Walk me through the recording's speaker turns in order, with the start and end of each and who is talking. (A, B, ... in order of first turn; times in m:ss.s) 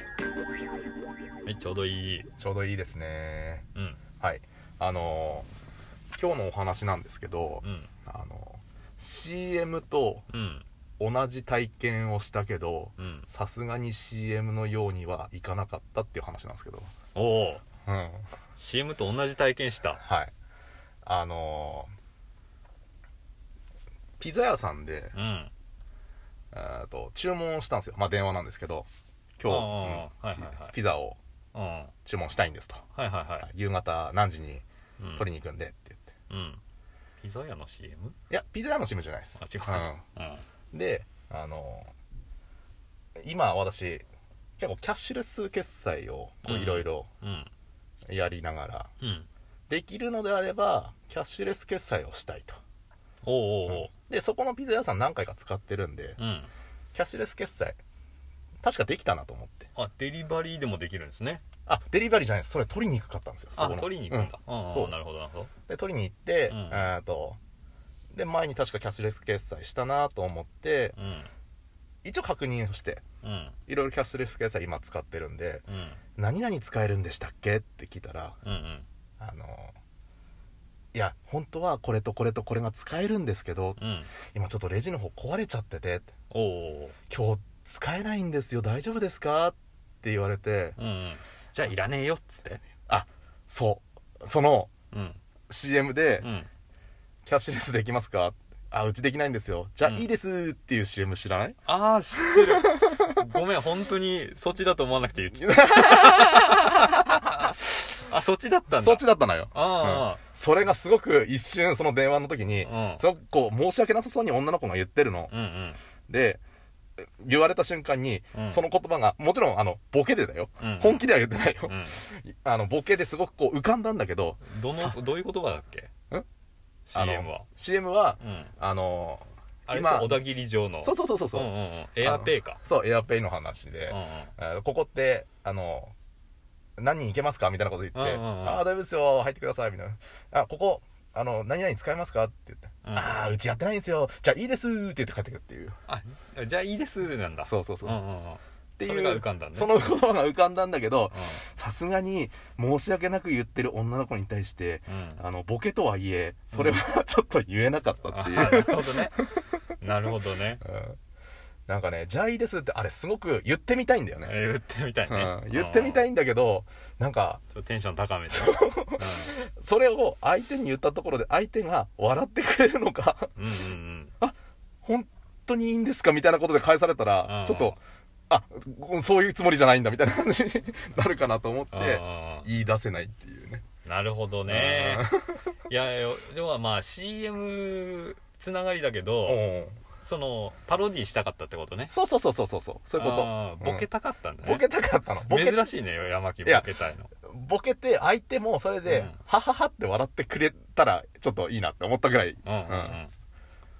0:01.4-0:02.3 A
0:02.4-0:03.7 B
0:03.7-0:04.0 A
0:04.2-0:05.5 B
0:06.1-0:10.2 B
0:07.6-0:07.9 A
0:10.3-0:10.6 A
0:11.0-0:16.9 B
0:13.0-0:13.3 A
0:17.1-0:17.6 A
0:17.8-0:18.2 B
0:18.6-0:20.0 A
0:20.0-0:20.3 B
0:21.0-0:21.9 B
0:24.2-0:25.1 B
0:25.1-0:25.5 A
0:26.5-0:28.9 B
0:29.4-0:31.2 B
0:29.4-0:30.7 A
0:31.5-0:31.9 A
0:32.0-0:32.8 B
0:32.9-0:33.5 A
0:33.4-0:34.6 B
0:35.0-0:35.2 A
0:35.2-0:36.1 B
0:36.3-0:36.6 A
0:37.2-0:38.2 A
0:38.3-0:40.0 B
0:39.4-0:40.4 A
0:40.7-0:41.9 B
0:43.2-0:44.0 B
0:44.6-0:47.1 B
0:46.4-0:47.5 A
0:48.1-0:48.9 B
0:49.0-0:49.3 A
0:49.7-0:52.6 B
0:53.2-0:53.9 A
0:53.7-0:56.2 B
0:56.2-0:56.5 A
0:56.9-0:57.8 B
0:58.6-0:59.7 B
0:59.7-1:01.4 A
1:01.7-1:05.0 B
1:03.6-1:05.5 A
1:05.7-1:07.4 B
1:06.5-1:06.9 A
1:08.1-1:11.0 B
1:10.9-1:11.3 A
1:12.0-1:13.0 B
1:13.2-1:13.6 A
1:13.7-1:15.6 B
1:15.7-1:16.0 A
1:16.2-1:18.4 B
1:18.4-1:18.8 A
1:19.2-1:19.7 B
1:20.9-1:26.1 B
1:23.8-1:24.1 A
1:26.3-1:27.0 A
1:27.1-1:30.8 B
1:30.8-1:32.6 A
1:32.9-1:34.7 B
1:34.9-1:35.2 A
1:35.5-1:36.3 B
1:36.2-1:36.5 A
1:37.2-1:41.6 B
1:41.6-1:50.2 A
1:42.2-1:43.1 B
1:45.3-1:47.1 B
1:48.7-1:55.3 B
1:52.6-1:53.0 A
1:55.3-1:55.8 A
1:56.1-1:56.4 B
1:57.2-2:05.0 B
1:58.3-1:58.6 A
2:00.6-2:01.0 A
2:01.7-2:02.0 A
2:04.4-2:05.9 A
2:06.9-2:07.4 A
2:06.9-2:10.2 B
2:08.2-2:08.5 A
2:09.7-2:12.6 A
2:10.8-2:15.9 B
2:13.9-2:14.3 A
2:16.8-2:25.7 B
2:17.9-2:18.6 A
2:22.8-2:23.2 A
2:25.9-2:29.9 A
2:27.4-2:28.0 B
2:28.8-2:39.3 B
2:31.1-2:31.4 A
2:34.9-2:35.2 A
2:36.5-2:36.8 A
2:38.1-2:39.2 A
2:39.8-2:40.6 A
2:40.6-2:41.0 B
2:41.7-2:44.3 B
2:44.2-2:46.1 A
2:45.1-2:47.4 B
2:47.5-2:49.3 A
2:48.3-2:53.3 B
2:53.4-2:54.1 A
2:54.2-3:03.6 B
2:57.2-2:57.8 A
3:01.7-3:02.5 A
3:03.8-3:05.1 A
3:04.5-3:05.4 B
3:05.7-3:09.4 A
3:09.2-3:09.8 B
3:10.0-3:11.9 A
3:11.9-3:13.9 B
3:13.0-3:14.7 A
3:14.4-3:15.8 B
3:15.2-3:17.1 A
3:16.4-3:16.7 B
3:17.2-3:23.0 B
3:18.8-3:19.2 A
3:22.4-3:23.1 A